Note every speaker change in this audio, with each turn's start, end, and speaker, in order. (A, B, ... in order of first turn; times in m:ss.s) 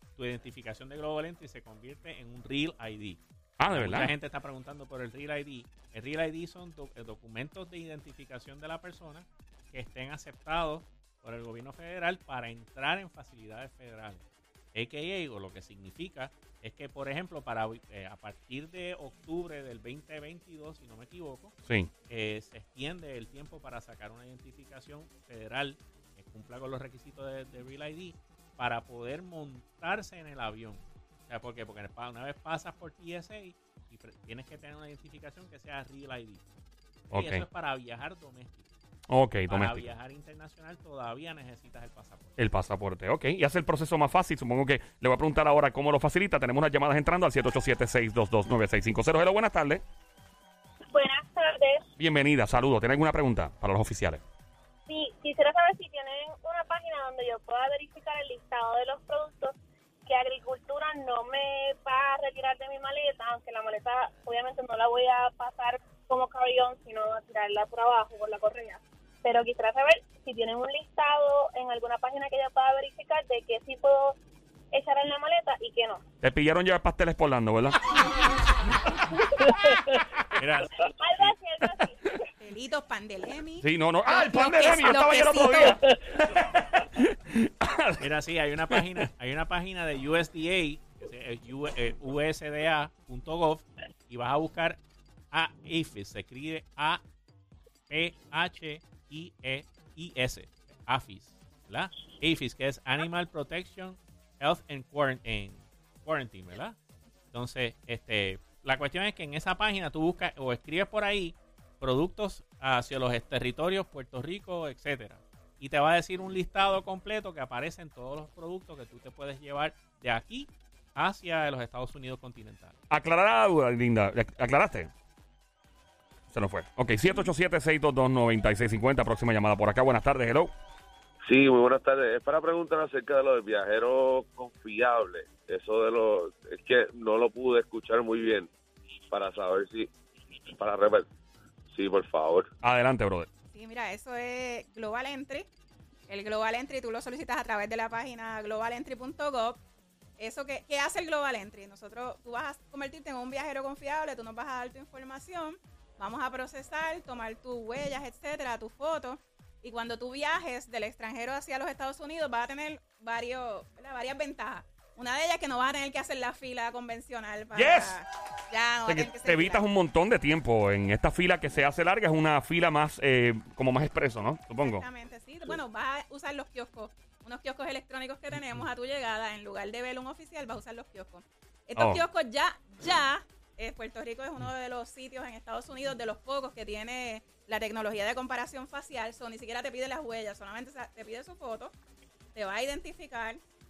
0:00.2-0:21.6 A
0:03.6-0:04.1 B
0:21.7-0:21.9 B
0:22.1-0:36.4 A
0:37.1-0:37.4 B
0:37.1-0:38.8 A
0:39.1-0:39.9 B
0:39.5-0:42.4 A
0:42.4-0:49.8 B
0:50.9-0:51.8 C
0:52.0-0:54.2 B
0:54.9-1:14.2 C
1:14.7-1:16.0 C
1:16.2-1:17.9 B
1:20.4-1:21.2 A
1:21.0-1:22.2 C
1:21.6-1:21.9 B
1:22.4-1:25.8 D
1:23.6-1:28.1 B
1:28.0-1:34.8 A
1:28.7-1:29.0 B
1:35.3-1:37.0 A
1:37.9-1:46.8 A
1:47.3-2:02.8 A
2:02.9-2:04.9 B
2:06.3-2:10.5 B
2:11.2-2:18.5 E
2:19.1-2:19.9 E
2:20.5-2:21.1 E
2:21.7-2:22.5 E
2:22.6-2:23.3 B
2:23.5-2:25.5 D
2:26.1-2:29.6 D
2:30.2-2:49.6 D
2:47.5-2:48.0 B
2:48.9-2:54.8 B
2:54.6-3:11.7 D
3:01.8-3:02.0 B
3:12.4-3:13.4 D